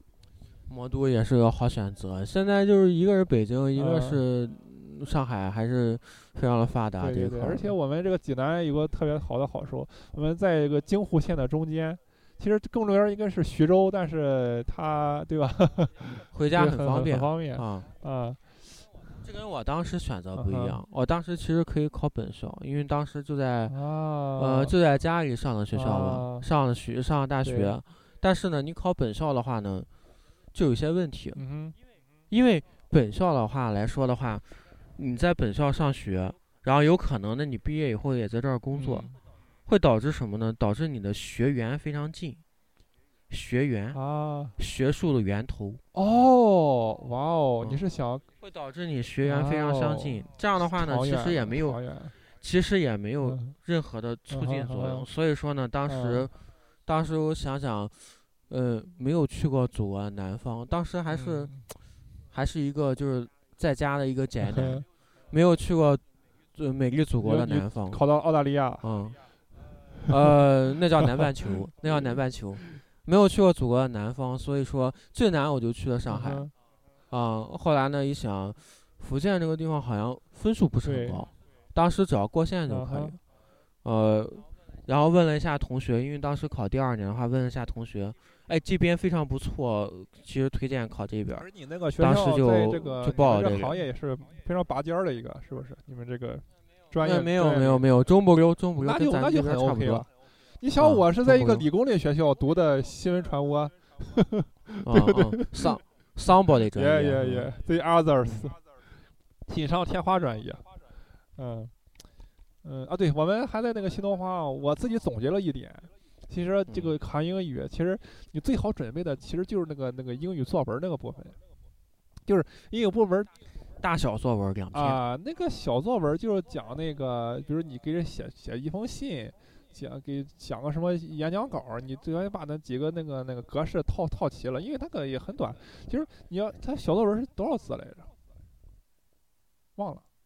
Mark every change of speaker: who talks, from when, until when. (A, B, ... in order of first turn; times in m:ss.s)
0:00.7-0:07.7 A
0:03.8-0:04.2 B
0:07.0-0:19.0 B
0:16.3-0:17.9 A
0:19.2-0:23.8 A
0:20.4-0:20.8 B
0:23.7-0:24.7 B
0:24.4-0:29.9 A
0:25.7-0:26.5 B
0:27.4-0:27.8 B
0:30.5-0:31.4 A
0:31.3-0:31.8 B
0:32.3-0:39.1 A
0:38.8-0:39.2 B
0:39.7-0:42.4 A
0:43.3-0:44.0 A
0:43.9-0:44.6 B
0:44.6-0:45.8 A
0:45.9-0:48.2 B
0:48.4-0:51.8 A
0:49.2-0:52.2 B
0:52.4-0:56.3 A
0:53.2-0:53.6 B
0:54.3-0:55.1 B
0:55.9-0:56.3 B
0:56.8-1:01.7 A
1:01.1-1:01.6 B
1:02.3-1:08.0 A
1:04.5-1:04.9 B
1:07.2-1:08.9 B
1:08.8-1:09.2 A
1:10.1-1:16.5 A
1:11.9-1:12.2 B
1:16.1-1:16.5 B
1:17.1-1:23.2 A
1:20.8-1:21.3 B
1:22.7-1:23.2 B
1:23.8-1:31.5 A
1:31.4-1:37.8 B
1:32.0-1:33.8 A
1:37.0-1:40.1 A
1:38.8-1:45.8 B
1:40.8-1:41.7 A
1:44.9-1:47.5 A
1:46.7-1:48.6 B
1:49.5-1:50.6 B
1:51.4-1:51.7 B
1:52.6-2:01.4 B
1:56.7-1:56.9 A
2:02.3-2:03.3 B
2:03.8-2:05.0 A
2:04.7-2:18.1 B
2:19.8-2:20.0 B